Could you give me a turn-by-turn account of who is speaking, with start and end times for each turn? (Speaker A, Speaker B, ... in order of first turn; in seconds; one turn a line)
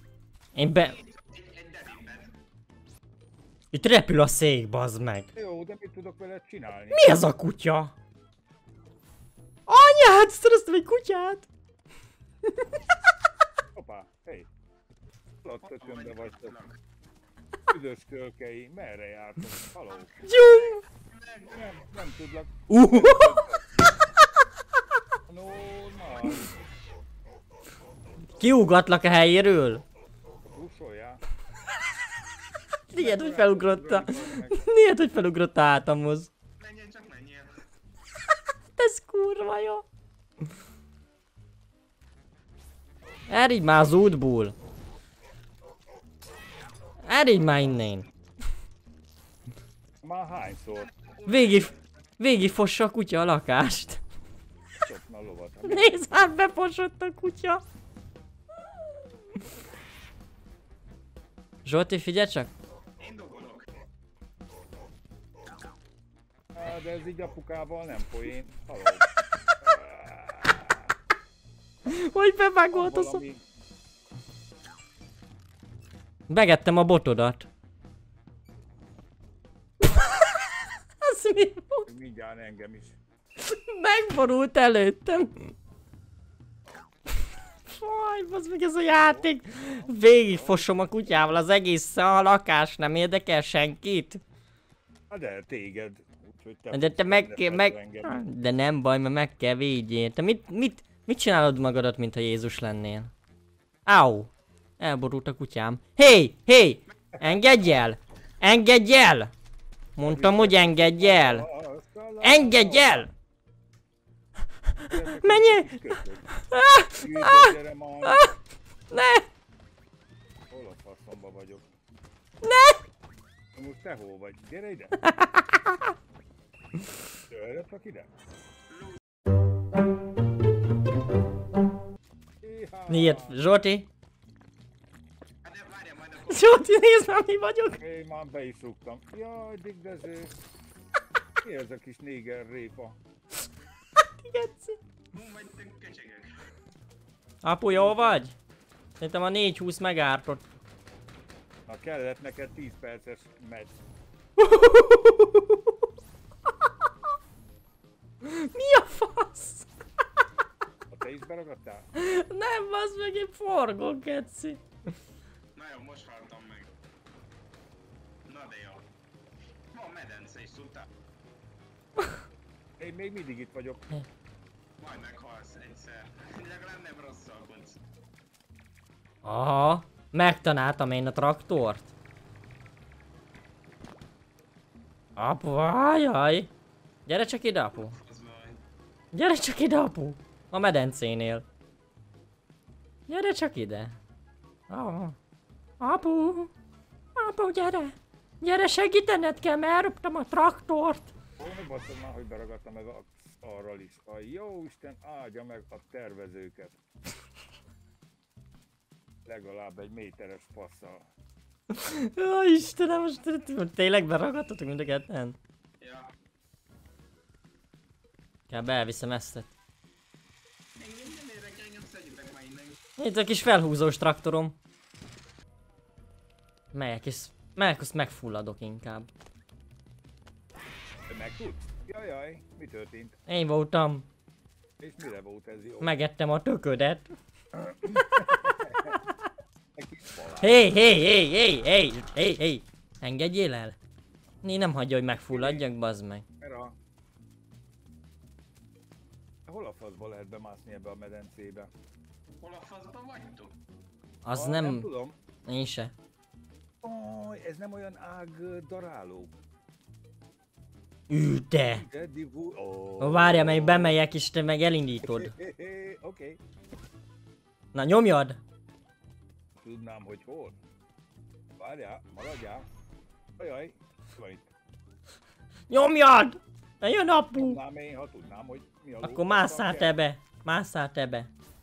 Speaker A: 0.5-1.0
Speaker B: 0.8-2.3
Speaker A: 3.7-5.3
Speaker C: 5.3-7.2
Speaker A: 6.9-7.9
Speaker A: 9.7-11.5
Speaker C: 13.7-14.5
Speaker C: 15.4-16.6
Speaker B: 15.6-16.8
Speaker C: 17.7-20.6
Speaker A: 20.2-20.8
Speaker B: 21.1-21.7
Speaker C: 21.5-23.7
Speaker A: 22.7-23.4
Speaker C: 25.3-26.5
Speaker A: 28.4-29.8
Speaker C: 30.5-31.2
Speaker A: 32.9-36.3
Speaker C: 32.9-34.7
Speaker B: 36.6-37.5
Speaker A: 38.8-39.9
Speaker A: 43.3-44.5
Speaker A: 47.0-48.1
Speaker C: 50.0-50.9
Speaker B: 51.0-51.8
Speaker A: 51.2-54.0
Speaker C: 54.8-56.0
Speaker A: 55.6-57.6
Speaker A: 61.6-62.5
Speaker B: 63.0-63.6
Speaker C: 66.5-69.1
Speaker C: 69.6-70.9
Speaker A: 71.8-73.2
Speaker C: 72.7-73.4
Speaker A: 76.3-77.5
Speaker A: 79.9-80.2
Speaker A: 81.0-81.8
Speaker C: 81.8-83.0
Speaker A: 83.4-85.5
Speaker A: 87.7-94.2
Speaker C: 88.9-91.1
Speaker C: 95.1-98.2
Speaker A: 96.7-103.1
Speaker A: 103.8-109.3
Speaker A: 110.0-111.5
Speaker C: 110.0-113.1
Speaker A: 112.2-113.1
Speaker C: 114.8-116.3
Speaker A: 114.9-117.5
Speaker C: 116.9-118.2
Speaker A: 118.0-118.3
Speaker A: 118.9-119.3
Speaker C: 120.5-121.6
Speaker A: 122.4-122.8
Speaker C: 123.5-125.0
Speaker A: 125.0-125.8
Speaker C: 127.3-128.1
Speaker B: 128.7-129.0
Speaker C: 132.4-133.4
Speaker A: 132.9-133.9
Speaker B: 135.4-136.6
Speaker A: 136.2-137.8
Speaker C: 137.8-140.3
Speaker C: 141.4-143.0
Speaker A: 144.2-144.8
Speaker B: 145.1-146.4
Speaker A: 147.4-148.3
Speaker C: 147.7-148.2
Speaker A: 149.0-150.4
Speaker C: 151.7-153.8
Speaker A: 154.4-155.6
Speaker A: 158.2-159.7
Speaker C: 160.9-161.9
Speaker A: 161.9-164.6
Speaker B: 165.5-166.7
Speaker B: 168.3-168.8
Speaker B: 169.7-170.9
Speaker C: 172.8-173.9
Speaker B: 174.8-177.8
Speaker A: 179.2-181.9
Speaker A: 185.2-186.5
Speaker A: 187.1-187.9
Speaker B: 187.7-188.6
Speaker A: 189.1-191.4
Speaker A: 193.1-194.0
Speaker A: 194.7-195.2
Speaker A: 195.8-196.5
Speaker A: 197.2-201.1
Speaker C: 201.4-206.8
Speaker C: 209.2-211.0
Speaker A: 211.7-215.4
Speaker B: 215.8-216.1
Speaker A: 218.5-219.5
Speaker B: 220.8-222.8
Speaker A: 223.0-224.6
Speaker A: 226.7-229.1
Speaker C: 231.1-233.2
Speaker A: 233.3-234.1
Speaker C: 234.8-236.0
Speaker A: 235.8-237.1
Speaker C: 237.5-239.0
Speaker C: 239.7-240.8
Speaker A: 240.4-243.8
Speaker A: 244.4-246.2
Speaker C: 245.3-245.6
Speaker C: 246.4-246.8
Speaker C: 249.5-251.7
Speaker B: 252.4-253.5
Speaker A: 254.2-254.9
Speaker C: 254.3-255.2
Speaker A: 255.4-255.9
Speaker C: 256.8-259.3
Speaker A: 261.1-261.8
Speaker C: 261.7-264.0
Speaker A: 263.0-265.3
Speaker C: 265.0-266.4
Speaker A: 267.7-268.4
Speaker C: 269.6-270.6
Speaker C: 271.6-272.7
Speaker C: 273.4-274.5
Speaker A: 275.7-277.6
Speaker C: 277.3-280.0
Speaker A: 279.0-281.3